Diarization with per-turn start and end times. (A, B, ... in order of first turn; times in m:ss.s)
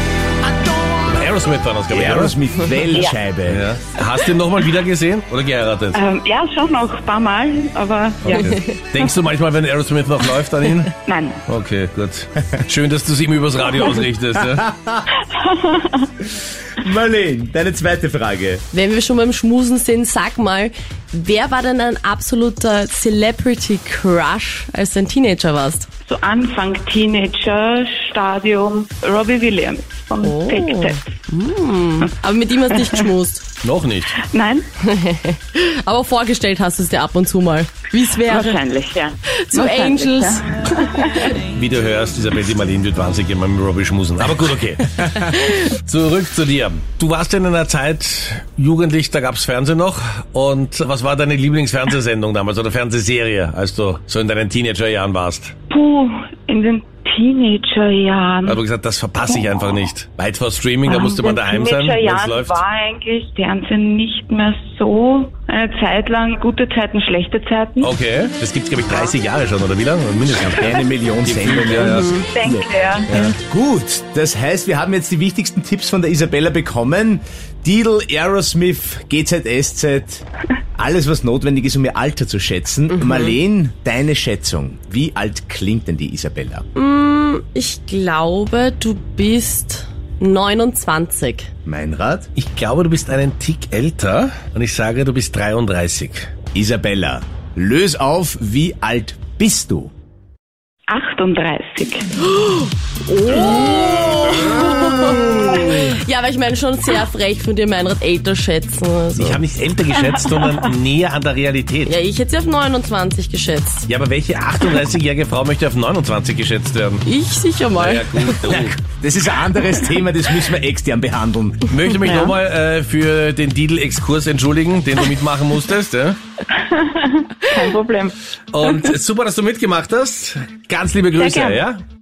0:00.4-0:01.2 A
0:01.1-0:02.4 B
0:01.9-0:03.7 A
0:03.5-0:06.0 B
0:05.9-0:08.6 C
0:08.2-0:11.0 B
0:11.0-0:11.4 C
0:11.5-0:14.7 B
0:14.6-0:15.0 A
0:15.2-0:16.1 C
0:16.4-0:18.6 A
0:18.7-0:25.9 D
0:26.1-0:31.1 C
0:30.2-0:33.4 D
0:32.7-0:33.0 C
0:33.6-0:34.1 B
0:34.2-0:34.7 C
0:34.8-0:38.6 D
0:38.2-0:41.4 C
0:39.4-0:41.3 D
0:41.5-0:55.6 B
0:45.3-0:45.6 D
0:55.7-0:58.6 C
0:58.4-1:02.6 B
0:59.2-0:59.9 C
1:00.8-1:07.9 C
1:07.8-1:12.2 B
1:10.4-1:20.2 A
1:11.9-1:12.3 D
1:12.3-1:13.4 C
1:20.8-1:26.6 A
1:23.0-1:23.4 D
1:26.8-1:31.5 D
1:31.6-1:32.3 A
1:32.4-1:36.3 B
1:36.5-1:39.9 A
1:40.9-1:42.1 C
1:42.2-1:49.4 D
1:49.2-1:52.0 B
1:51.9-1:53.9 D
1:53.9-1:57.0 B
1:57.0-1:58.4 D
1:57.8-1:58.8 B
1:58.4-2:01.8 A
2:01.7-2:06.2 B
2:02.0-2:02.4 C
2:06.5-2:08.9 C
2:08.5-2:11.8 B
2:11.2-2:11.7 C